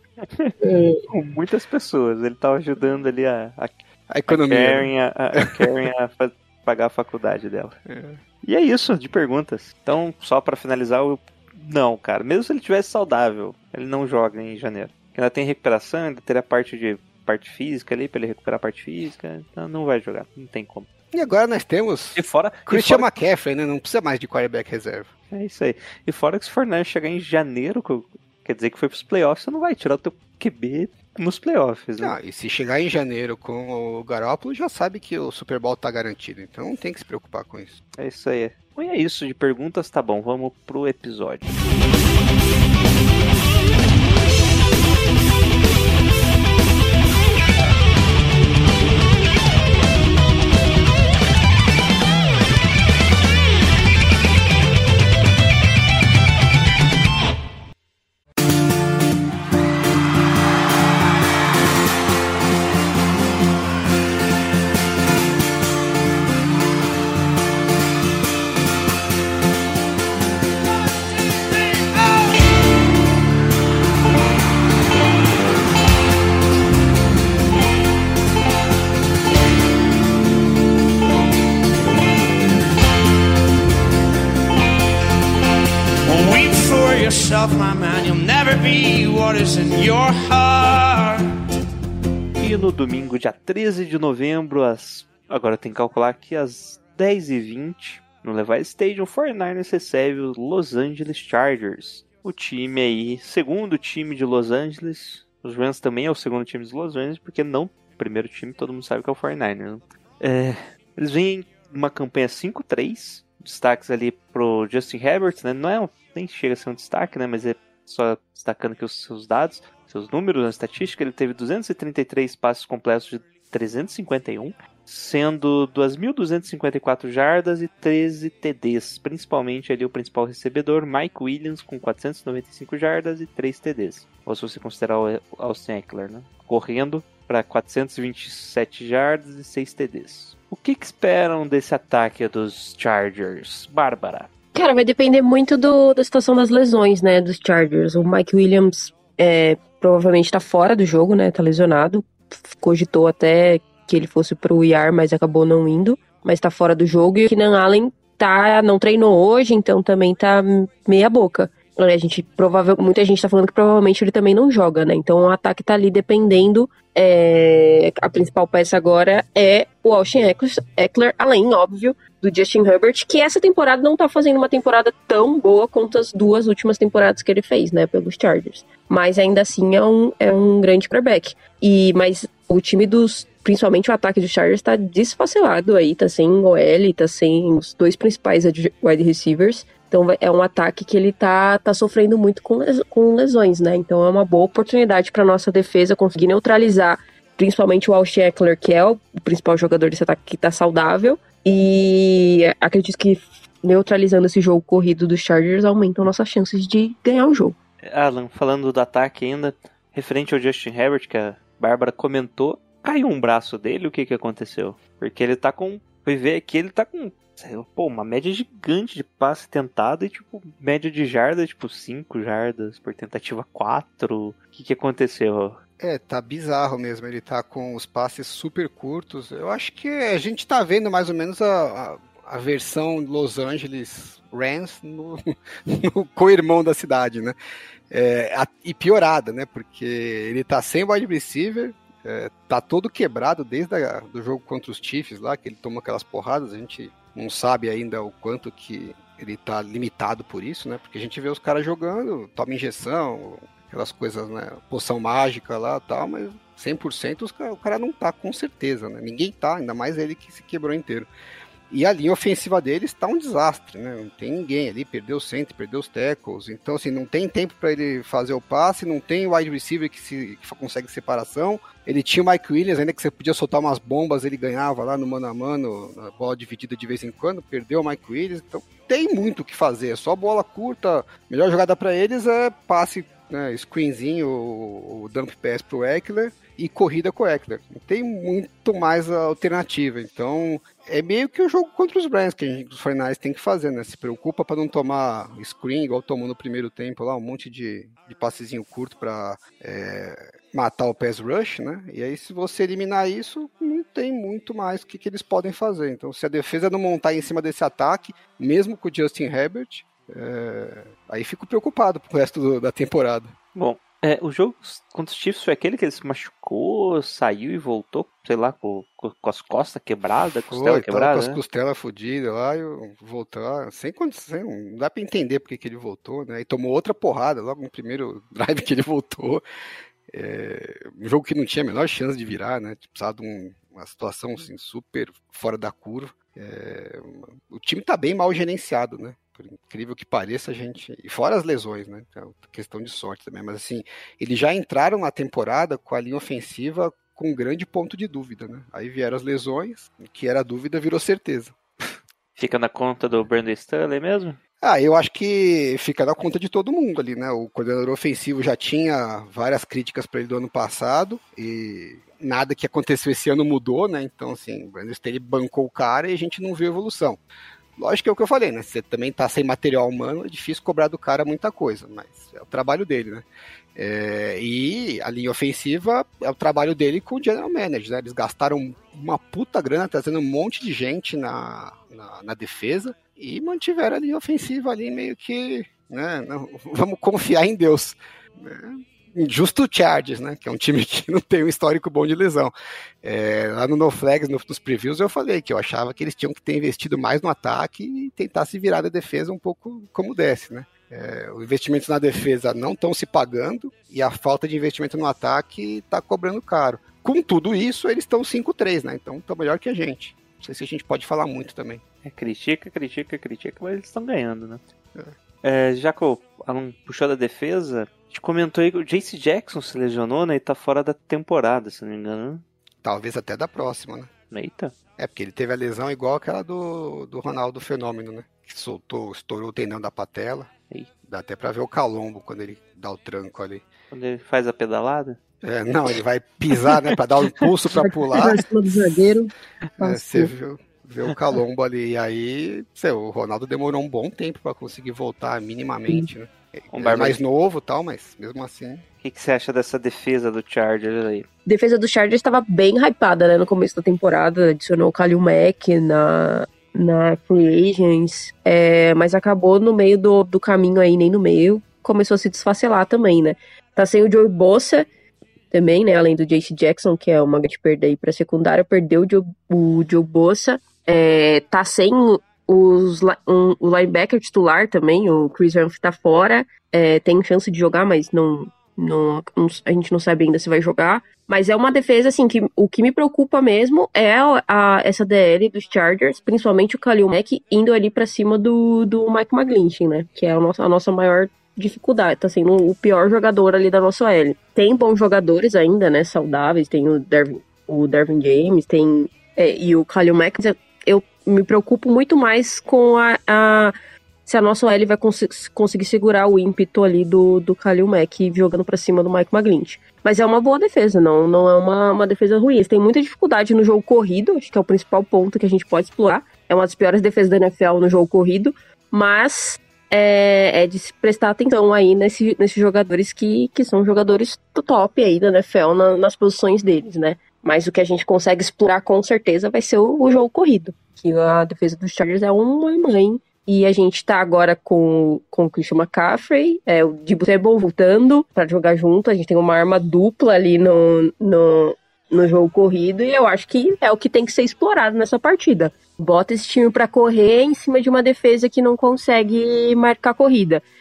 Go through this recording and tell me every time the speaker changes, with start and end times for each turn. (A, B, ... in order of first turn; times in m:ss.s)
0:00.2-0:00.5 A
0:00.6-0:01.0 B
0:01.1-0:07.8 A
0:04.1-0:05.5 C
0:07.9-0:08.2 C
0:08.4-0:20.9 A
0:21.1-0:25.1 C
0:22.2-0:23.1 A
0:25.3-0:32.2 A
0:32.0-0:37.8 C
0:38.0-0:41.5 A
1:26.1-1:31.2 D
1:32.4-2:24.3 A
2:24.5-3:27.6 B
3:27.8-3:45.6 A
3:45.8-3:57.4 C
3:57.9-4:21.1 C
4:21.7-5:13.4 C
5:13.6-5:21.4 A
5:20.5-5:29.4 C
5:30.1-5:51.6 C
5:52.4-5:54.4 A
5:54.6-6:07.2 C
6:07.8-6:51.8 C
6:52.0-6:54.6 A
6:55.4-7:02.4 A
7:02.8-7:04.1 C
7:04.3-7:04.7 A
7:05.0-7:10.5 C
7:11.0-7:13.7 C
7:13.9-7:15.2 A
7:15.4-7:18.4 C
7:17.8-7:20.3 B
7:19.8-7:28.8 C
7:26.7-7:27.2 A
7:29.0-7:31.3 A
7:31.5-7:44.9 B
7:45.5-8:23.7 B
8:24.3-9:10.6 B